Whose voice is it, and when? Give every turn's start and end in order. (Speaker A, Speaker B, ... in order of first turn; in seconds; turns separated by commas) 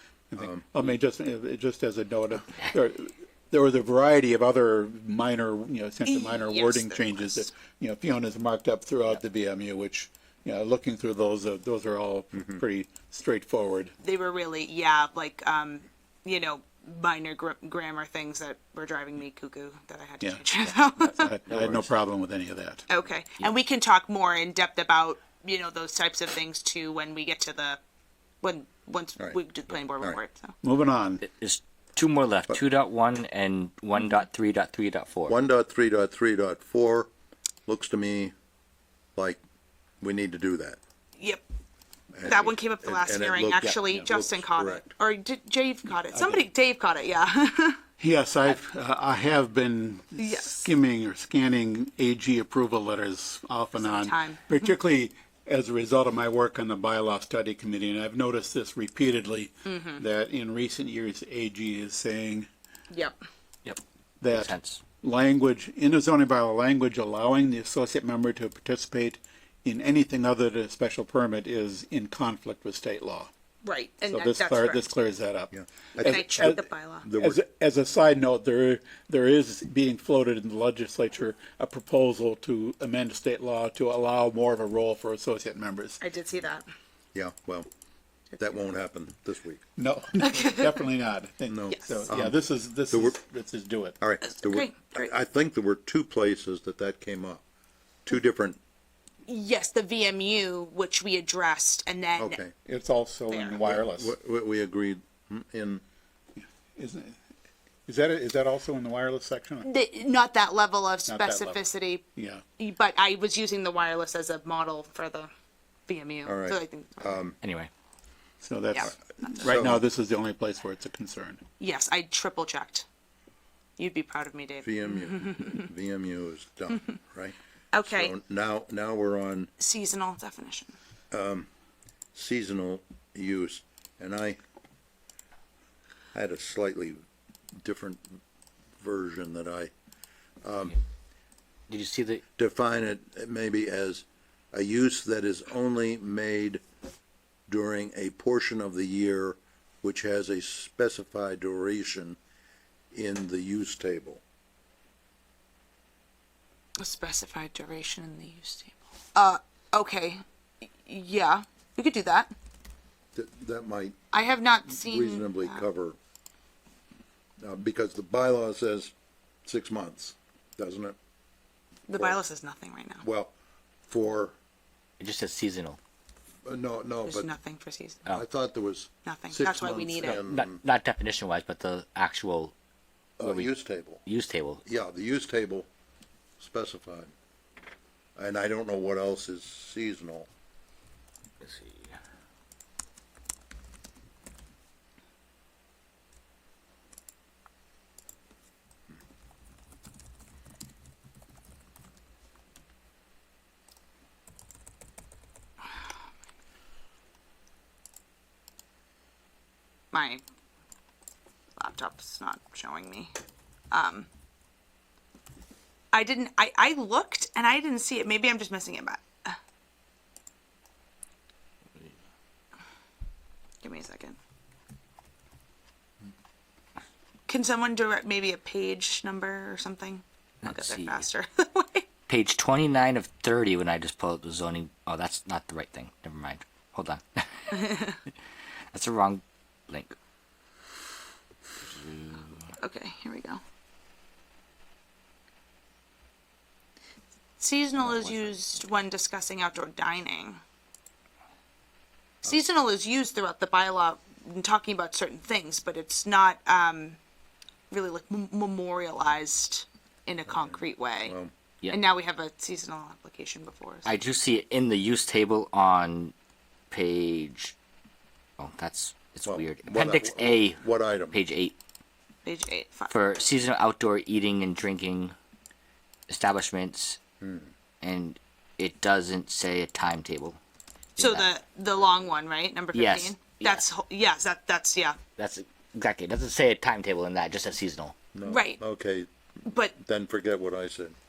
Speaker A: 0.3-13.9, Speaker B: 0.4-0.7, Speaker C: 6.0-7.5, Speaker C: 14.0-21.4, Speaker A: 20.2-22.8, Speaker D: 21.5-21.9, Speaker C: 22.9-27.8, Speaker C: 28.4-30.6, Speaker B: 29.2-30.2, Speaker A: 30.6-31.2, Speaker D: 31.2-35.4, Speaker B: 35.3-37.1, Speaker B: 37.7-38.3, Speaker B: 40.0-40.8, Speaker B: 42.1-44.9, Speaker C: 42.2-47.8, Speaker A: 46.1-46.4, Speaker A: 48.0-62.5, Speaker C: 50.2-50.7, Speaker C: 53.8-54.7, Speaker C: 59.7-60.0, Speaker C: 62.9-63.2, Speaker D: 63.6-64.8, Speaker A: 64.2-73.3, Speaker C: 73.6-74.8, Speaker A: 74.1-86.0, Speaker B: 75.5-77.4, Speaker C: 75.9-77.1, Speaker C: 86.0-86.7, Speaker B: 87.1-87.7, Speaker B: 88.4-89.7, Speaker A: 89.8-94.0, Speaker C: 90.2-90.7, Speaker B: 91.5-93.2, Speaker C: 91.7-92.1, Speaker B: 94.0-97.4, Speaker C: 94.2-95.1, Speaker B: 98.0-98.6, Speaker C: 99.3-102.4, Speaker B: 102.2-102.5, Speaker A: 102.7-104.2, Speaker C: 103.3-103.7, Speaker B: 103.6-105.8, Speaker A: 106.4-107.2, Speaker A: 107.8-109.7, Speaker C: 109.6-112.0, Speaker A: 111.1-112.4, Speaker C: 112.6-115.3, Speaker C: 115.9-117.2, Speaker B: 116.2-117.4, Speaker D: 117.4-117.7, Speaker A: 118.4-121.4, Speaker C: 118.7-119.7, Speaker B: 119.4-119.8, Speaker C: 121.6-122.8, Speaker C: 123.8-125.7, Speaker B: 124.6-129.5, Speaker C: 127.7-128.1, Speaker C: 129.6-130.7, Speaker B: 131.1-131.5, Speaker B: 132.1-134.4, Speaker B: 136.1-137.0, Speaker B: 137.6-138.0, Speaker B: 138.8-139.7, Speaker B: 140.4-140.8, Speaker D: 141.7-142.2, Speaker B: 142.4-146.6, Speaker B: 147.5-152.2, Speaker B: 152.9-154.2, Speaker C: 156.8-160.2, Speaker C: 160.8-162.3, Speaker B: 163.1-163.9, Speaker C: 164.1-165.6, Speaker B: 164.7-166.0, Speaker B: 167.4-168.9, Speaker B: 169.4-171.0, Speaker C: 171.9-173.0, Speaker B: 171.9-172.2, Speaker B: 173.0-173.3, Speaker B: 173.9-174.3, Speaker D: 175.0-175.8, Speaker B: 176.4-177.3, Speaker C: 177.0-178.1, Speaker B: 178.1-180.6, Speaker C: 179.0-180.2, Speaker D: 180.0-182.5, Speaker B: 183.2-184.0, Speaker D: 183.2-183.5, Speaker D: 184.0-184.6, Speaker B: 184.6-185.7, Speaker B: 186.4-187.1, Speaker B: 188.2-190.3, Speaker D: 191.4-192.0, Speaker C: 209.9-210.2, Speaker C: 211.6-213.1, Speaker C: 213.7-214.1, Speaker C: 215.9-219.4, Speaker C: 223.6-224.2, Speaker C: 227.3-231.9, Speaker D: 230.4-231.1, Speaker D: 232.1-237.8, Speaker C: 237.5-238.0, Speaker D: 238.7-239.9, Speaker D: 241.6-242.4, Speaker C: 242.6-243.4, Speaker C: 247.4-250.4, Speaker D: 247.9-248.3, Speaker C: 252.2-257.0, Speaker C: 257.7-261.1, Speaker B: 260.3-261.3, Speaker C: 261.7-263.9, Speaker D: 263.8-266.1, Speaker D: 266.7-267.6, Speaker D: 268.4-271.6, Speaker B: 269.2-271.2, Speaker C: 272.2-273.0, Speaker D: 272.9-275.1, Speaker D: 276.1-277.0, Speaker B: 277.2-277.5, Speaker D: 277.8-280.4, Speaker C: 280.9-285.0, Speaker D: 281.0-281.3, Speaker D: 282.7-283.6, Speaker D: 285.1-288.1, Speaker B: 288.1-289.1, Speaker C: 288.2-288.6, Speaker C: 289.4-289.8, Speaker B: 289.7-290.9